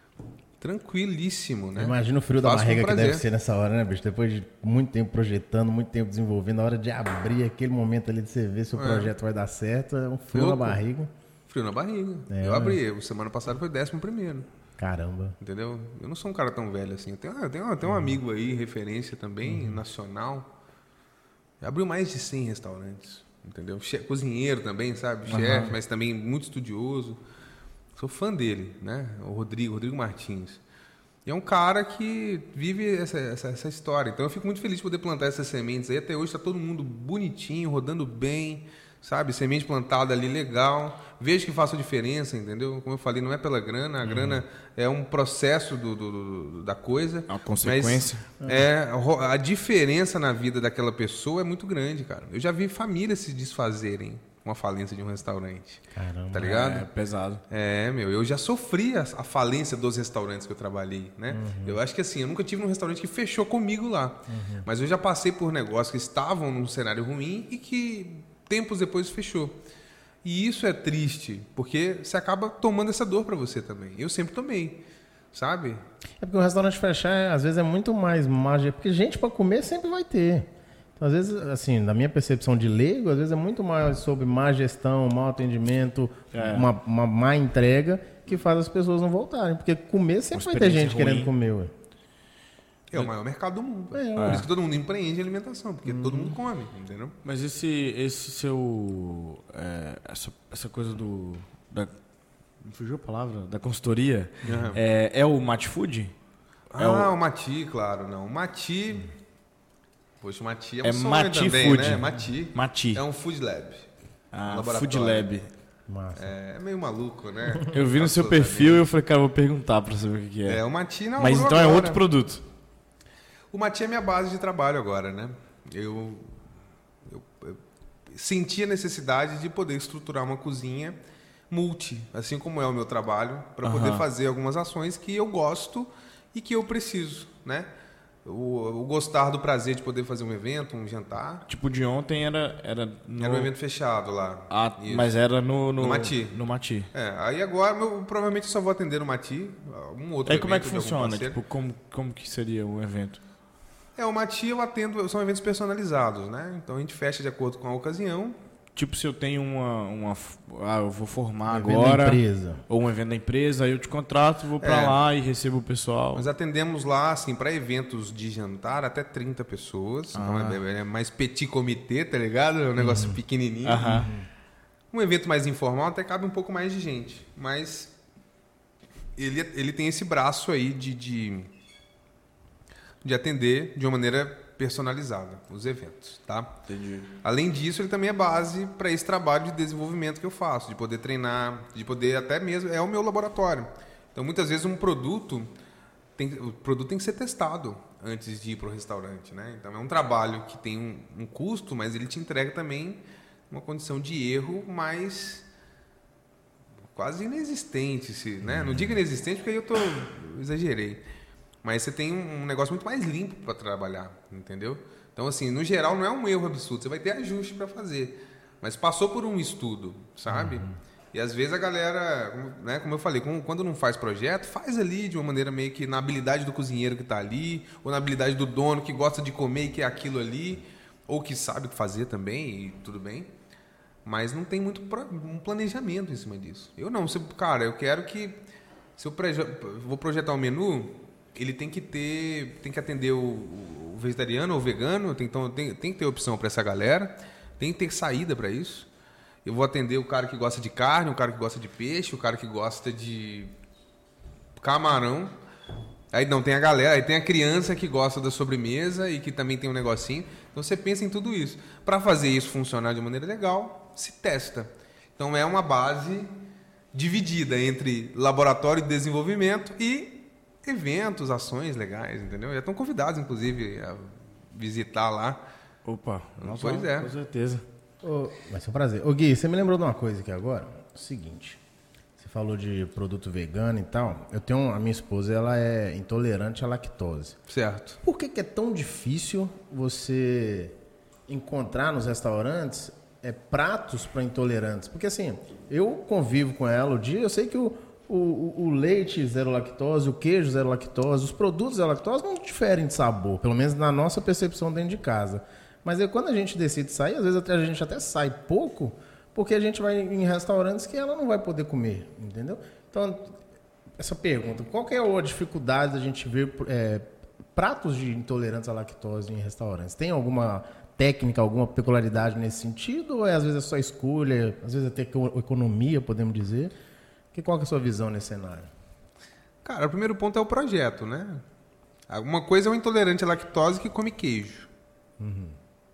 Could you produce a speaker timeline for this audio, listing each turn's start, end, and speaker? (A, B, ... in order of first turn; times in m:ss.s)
0:00.6-0:03.2 A
0:01.8-0:11.1 B
0:08.7-0:09.1 A
0:10.3-0:10.8 A
0:11.5-0:14.5 A
0:12.3-0:12.8 B
0:14.8-0:15.4 B
0:15.4-0:20.5 A
0:21.6-0:27.2 A
0:25.3-0:25.7 C
0:28.0-0:30.6 A
0:31.2-0:56.9 A
0:47.3-0:48.2 C
0:55.9-0:56.5 B
0:56.4-0:57.4 C
0:57.5-1:09.6 A
1:01.3-1:01.8 B
1:04.3-1:04.6 B
1:10.2-1:15.8 A
1:16.2-1:31.7 B
1:26.3-1:26.7 C
1:30.3-1:31.3 C
1:32.9-1:37.2 A
1:33.9-1:34.5 B
1:34.2-1:34.4 C
1:37.2-1:41.9 C
1:42.6-1:46.1 C
1:44.4-1:44.8 A
1:46.7-1:49.1 A
1:46.8-1:47.1 C
1:50.2-1:53.9 A
1:50.8-1:53.0 C
1:54.3-1:55.5 C
1:54.5-1:55.3 A
1:55.9-1:56.3 B
1:56.1-1:58.8 A
1:57.7-2:00.6 C
2:00.4-2:02.0 A
2:01.2-2:02.4 C
2:03.5-2:06.3 A
2:07.0-2:11.0 A
2:11.5-2:17.7 A
2:13.6-2:14.0 C
2:18.2-2:21.4 A
2:21.5-2:23.5 C
2:23.2-2:25.1 A
2:24.5-2:26.9 C
2:25.8-2:26.4 A
2:26.9-2:31.4 A
2:30.2-2:33.2 C
2:34.0-2:38.4 A
2:38.8-2:46.2 C
2:41.5-2:42.6 B
2:44.6-2:45.0 A
2:46.1-2:54.0 A
2:50.1-2:50.6 C
2:52.8-2:53.2 B
2:53.6-2:54.1 C
2:53.8-2:54.2 B
2:54.9-2:57.9 A
2:59.2-3:01.5 A
3:03.0-3:06.6 A
3:06.7-3:07.1 C
3:07.2-3:15.5 A
3:16.2-3:25.4 A
3:26.9-3:31.0 A
3:28.4-3:29.0 B
3:31.6-3:53.3 A
3:40.3-3:40.8 B
3:54.0-3:58.4 A
3:59.0-4:08.9 A
4:09.4-4:13.5 A
4:14.6-4:15.3 A
4:16.1-4:26.3 A
4:26.9-4:35.4 A
4:35.8-4:37.6 C
4:36.4-4:37.1 A
4:38.0-4:41.6 B
4:42.2-4:47.4 B
4:47.5-4:48.0 A
4:48.0-4:50.8 B
4:51.3-5:13.4 B
5:14.0-5:26.7 B
5:27.3-5:28.7 B
5:29.6-5:31.4 A
5:32.1-5:34.7 A
5:35.2-5:35.6 B